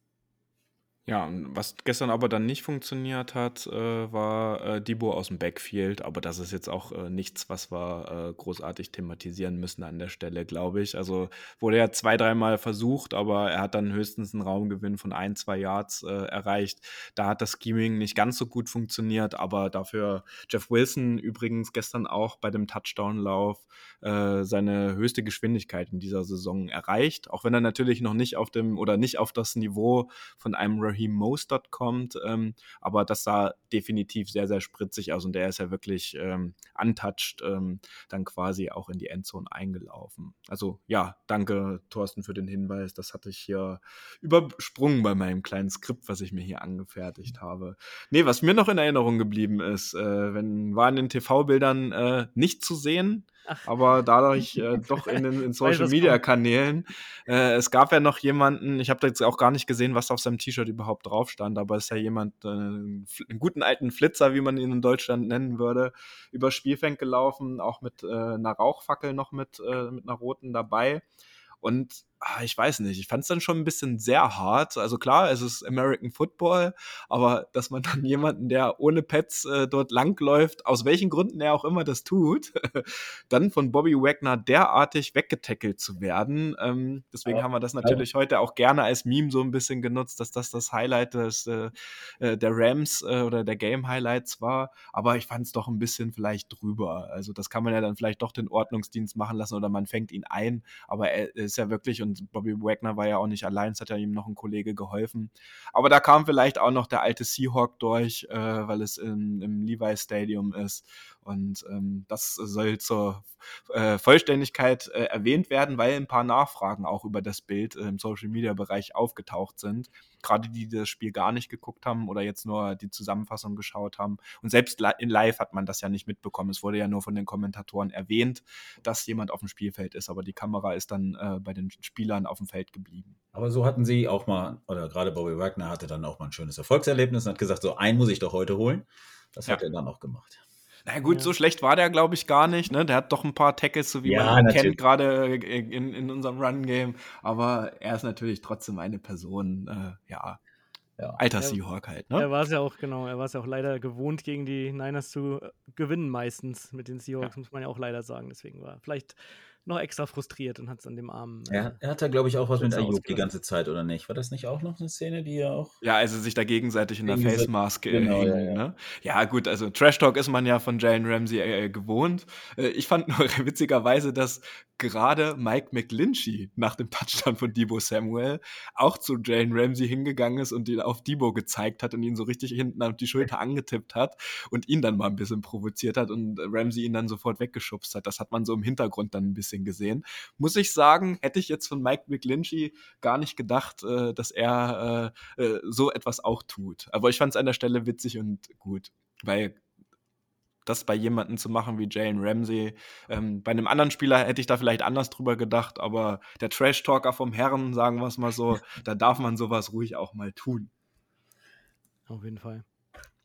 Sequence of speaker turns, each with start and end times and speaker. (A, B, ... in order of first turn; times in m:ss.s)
0:01.1-1:11.0 A
0:55.1-0:56.2 B
1:11.6-2:13.2 A
1:27.3-1:28.0 C
2:13.3-2:20.4 C
2:20.9-2:30.4 A
2:21.0-2:21.3 B
2:24.0-2:24.8 C
2:31.2-2:32.3 A
2:32.1-2:41.8 B
2:41.5-2:45.8 C
2:42.6-2:43.3 B
2:45.8-3:19.6 A
2:47.0-2:48.6 C
3:20.6-3:30.7 A
3:32.1-3:32.6 B